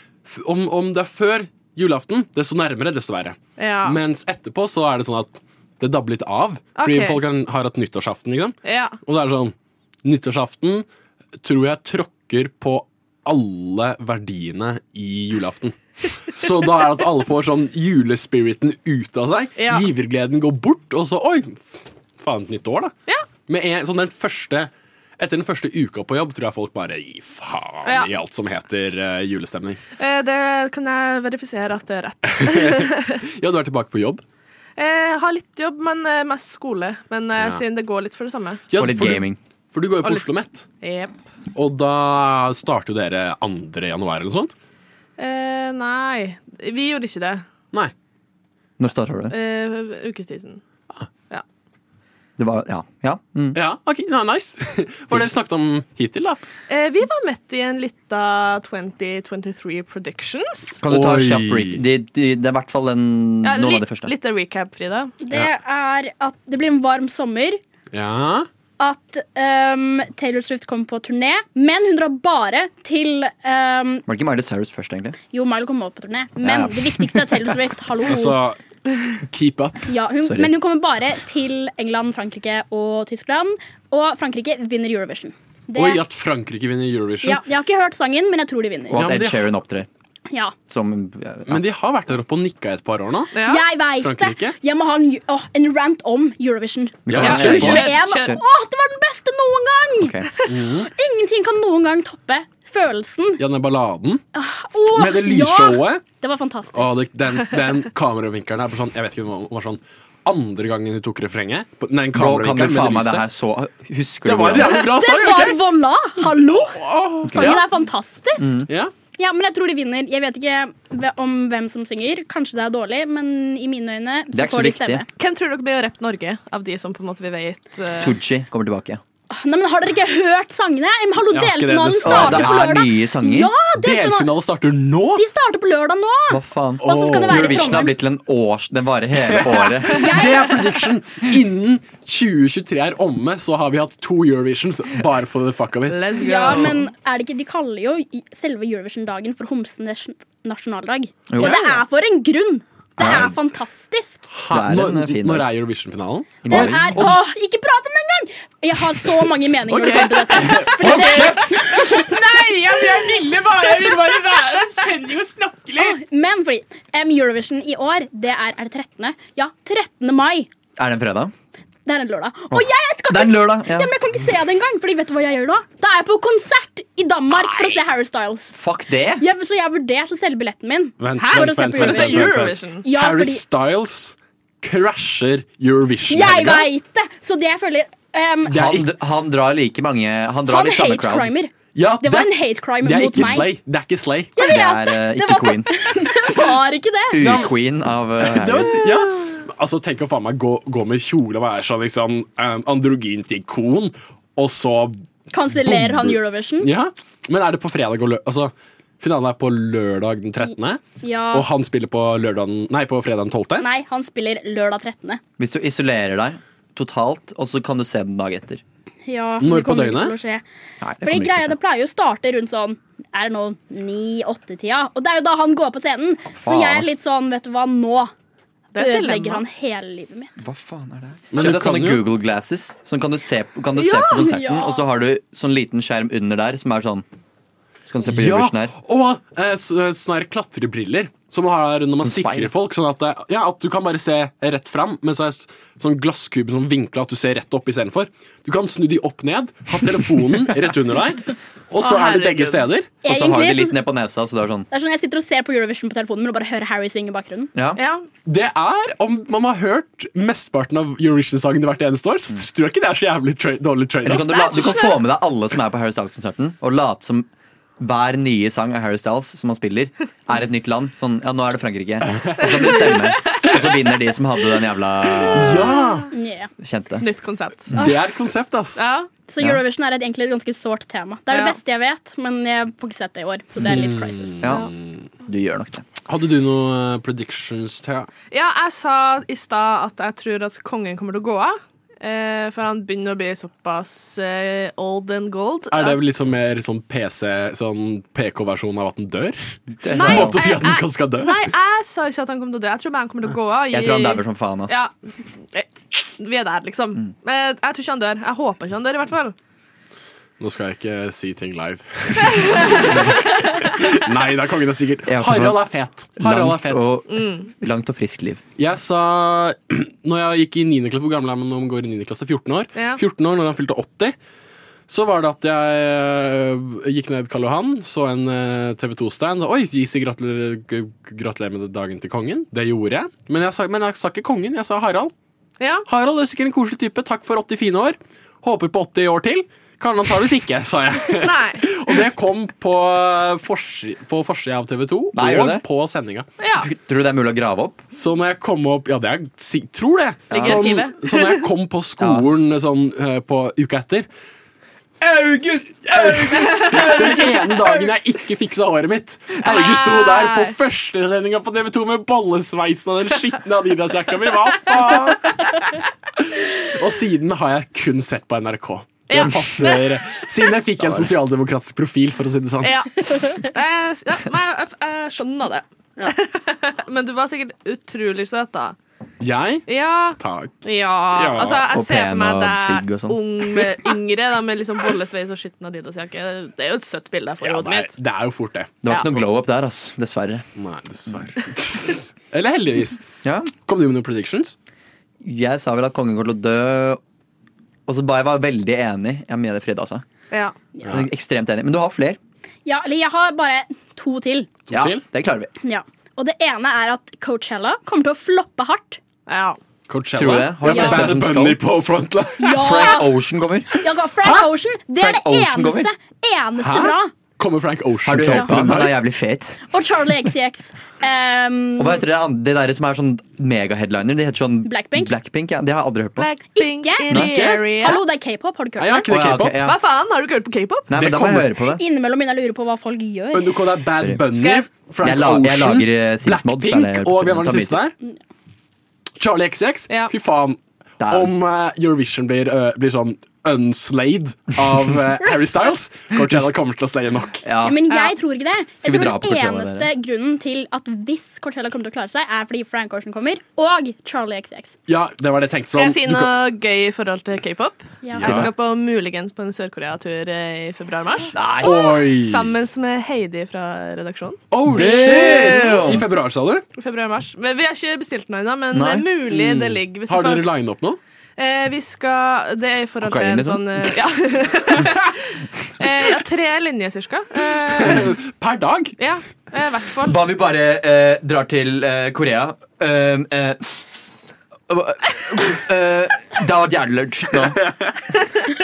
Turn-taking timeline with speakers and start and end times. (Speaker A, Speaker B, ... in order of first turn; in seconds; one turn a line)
Speaker A: 0.2-10.9
Speaker B: 3.6-4.0
Speaker B: 6.8-7.2
Speaker B: 8.7-9.0
Speaker A: 11.4-29.8
Speaker B: 19.6-19.9
Speaker B: 30.0-33.1
Speaker A: 32.3-34.2
Speaker B: 34.8-38.7
Speaker A: 37.4-37.6
Speaker A: 38.7-40.7
Speaker C: 38.8-39.4
Speaker B: 40.8-41.2
Speaker A: 41.5-44.5
Speaker B: 45.2-47.5
Speaker C: 48.8-49.4
Speaker B: 49.3-50.6
Speaker C: 52.4-53.6
Speaker A: 53.5-56.4
Speaker B: 56.7-60.8
Speaker C: 60.8-64.1
Speaker A: 60.9-61.8
Speaker B: 63.4-65.1
Speaker D: 65.2-67.6
Speaker A: 67.9-68.5
Speaker D: 68.8-74.0
Speaker C: 74.1-75.2
Speaker D: 75.3-78.4
Speaker C: 76.4-77.5
Speaker A: 78.0-78.6
Speaker A: 79.2-79.9
Speaker D: 79.9-86.0
Speaker C: 80.2-80.5
Speaker A: 85.8-87.4
Speaker D: 87.2-89.1
Speaker C: 88.9-89.9
Speaker A: 88.9-89.5
Speaker D: 90.3-90.5
Speaker C: 90.7-91.6
Speaker A: 91.5-93.3
Speaker B: 93.3-93.6
Speaker D: 93.4-100.2
Speaker A: 94.0-94.6
Speaker C: 97.1-98.4
Speaker A: 97.1-97.9
Speaker B: 97.2-98.3
Speaker C: 100.0-100.3
Speaker A: 100.5-100.9
Speaker D: 100.8-103.4
Speaker A: 103.4-104.2
Speaker D: 104.3-107.0
Speaker A: 104.9-106.0
Speaker A: 106.7-113.2
Speaker C: 112.1-114.8
Speaker A: 114.2-115.6
Speaker D: 114.8-118.6
Speaker A: 116.7-117.6
Speaker C: 117.2-117.6
Speaker C: 118.4-118.7
Speaker D: 119.2-125.0
Speaker C: 124.3-125.1
Speaker B: 125.2-128.1
Speaker C: 128.0-129.0
Speaker D: 129.3-134.3
Speaker A: 131.3-132.8
Speaker C: 132.0-133.5
Speaker A: 133.7-135.2
Speaker D: 135.2-137.9
Speaker C: 136.3-140.1
Speaker A: 136.8-137.8
Speaker A: 139.2-146.7
Speaker D: 139.9-140.5
Speaker B: 145.9-146.7
Speaker D: 146.2-154.3
Speaker C: 151.3-151.6
Speaker C: 153.0-153.3
Speaker A: 154.3-157.3
Speaker C: 154.5-155.5
Speaker C: 156.4-157.2
Speaker D: 156.5-162.3
Speaker A: 159.7-165.9
Speaker D: 165.8-170.5
Speaker C: 170.8-171.3
Speaker D: 171.9-178.6
Speaker C: 172.5-173.9
Speaker C: 178.5-179.2
Speaker D: 179.2-182.3
Speaker A: 181.0-186.7
Speaker B: 181.2-182.8
Speaker D: 182.8-183.4
Speaker D: 186.1-188.6
Speaker C: 188.5-191.3
Speaker A: 188.5-188.9
Speaker D: 190.5-193.5
Speaker A: 191.7-194.4
Speaker D: 194.4-197.2
Speaker C: 194.4-195.7
Speaker C: 197.1-198.8
Speaker A: 197.2-197.5
Speaker A: 198.2-205.0
Speaker D: 205.3-206.7
Speaker A: 205.6-213.7
Speaker D: 210.4-211.5
Speaker D: 213.6-215.2
Speaker C: 215.4-218.6
Speaker D: 219.1-220.4
Speaker A: 219.4-220.2
Speaker C: 220.8-221.6
Speaker D: 221.0-228.1
Speaker C: 226.4-226.9
Speaker B: 228.7-229.4
Speaker D: 228.8-230.4
Speaker C: 230.4-237.1
Speaker A: 231.3-232.0
Speaker D: 233.8-234.8
Speaker C: 237.9-238.7
Speaker A: 238.0-253.0
Speaker C: 242.0-242.5
Speaker B: 251.8-252.7
Speaker D: 253.0-253.8
Speaker C: 253.1-254.7
Speaker D: 254.7-257.5
Speaker C: 257.6-257.8
Speaker B: 257.8-258.1
Speaker A: 258.3-264.3
Speaker C: 264.0-267.3
Speaker B: 264.1-265.0
Speaker C: 267.8-275.7
Speaker B: 272.4-273.8
Speaker A: 275.0-276.1
Speaker B: 275.5-276.1
Speaker D: 276.1-276.5
Speaker C: 276.6-277.1
Speaker B: 277.0-277.8
Speaker A: 277.7-278.8
Speaker B: 278.8-279.1
Speaker D: 279.3-284.5
Speaker B: 281.3-281.6
Speaker A: 283.6-285.1
Speaker C: 284.4-284.7
Speaker C: 285.2-285.8
Speaker A: 286.1-288.1
Speaker B: 288.3-296.0
Speaker A: 295.7-301.5
Speaker C: 299.8-300.4
Speaker B: 299.9-304.9
Speaker C: 303.7-304.8
Speaker B: 305.5-309.4
Speaker A: 310.4-313.1
Speaker B: 312.6-313.4
Speaker A: 313.6-316.9
Speaker C: 315.1-318.4
Speaker B: 317.1-317.5
Speaker A: 318.6-324.2
Speaker B: 322.8-323.0
Speaker A: 324.9-335.1
Speaker B: 335.6-335.9
Speaker A: 335.9-346.3
Speaker B: 341.2-341.7
Speaker C: 345.1-345.6
Speaker B: 346.4-346.7
Speaker C: 346.6-347.8
Speaker A: 347.9-354.1
Speaker B: 350.3-351.5
Speaker C: 350.4-350.6
Speaker C: 352.0-352.3
Speaker A: 355.0-365.6
Speaker B: 356.4-357.2
Speaker B: 359.4-360.6
Speaker A: 366.2-372.8
Speaker B: 369.1-370.3
Speaker B: 372.6-378.8
Speaker A: 379.2-379.6
Speaker B: 379.7-387.9
Speaker A: 380.2-381.6
Speaker C: 381.7-383.2
Speaker A: 387.4-388.8
Speaker C: 388.8-390.4
Speaker A: 390.6-393.0
Speaker C: 393.2-393.5
Speaker A: 393.6-394.6
Speaker C: 395.2-397.0
Speaker C: 397.9-400.1
Speaker C: 400.9-402.2
Speaker D: 402.7-404.5
Speaker A: 404.7-405.0
Speaker C: 404.7-405.5
Speaker D: 405.6-409.0
Speaker B: 409.3-409.6
Speaker A: 409.9-412.8
Speaker C: 410.2-411.6
Speaker D: 410.7-411.2
Speaker D: 412.4-413.1
Speaker C: 412.5-415.9
Speaker D: 413.7-417.1
Speaker A: 416.6-419.0
Speaker C: 418.1-419.6
Speaker D: 418.2-418.7
Speaker D: 419.7-422.0
Speaker C: 421.8-426.3
Speaker D: 424.6-425.1
Speaker B: 426.2-428.0
Speaker D: 426.6-429.1
Speaker A: 427.2-427.6
Speaker A: 428.8-429.6
Speaker C: 429.1-429.8
Speaker B: 429.6-431.0
Speaker C: 430.9-431.8
Speaker A: 430.9-431.5
Speaker D: 431.8-433.5
Speaker A: 433.3-437.9
Speaker C: 434.0-434.2
Speaker B: 434.3-434.7
Speaker C: 435.0-437.8
Speaker A: 439.2-447.4
Speaker B: 439.9-440.1
Speaker C: 441.0-441.3
Speaker C: 447.4-447.8
Speaker D: 447.6-454.8
Speaker C: 448.8-449.9
Speaker A: 454.9-456.3
Speaker B: 455.8-465.8
Speaker D: 458.0-458.3
Speaker A: 458.2-458.5
Speaker C: 461.4-461.7
Speaker A: 461.4-462.5
Speaker A: 464.5-466.6
Speaker C: 464.7-466.1
Speaker B: 466.8-470.5
Speaker C: 468.7-469.1
Speaker A: 469.3-471.0
Speaker B: 471.4-475.2
Speaker C: 473.0-473.8
Speaker B: 475.8-478.1
Speaker A: 477.8-479.0
Speaker B: 479.0-480.2
Speaker C: 480.1-483.6
Speaker C: 484.7-487.6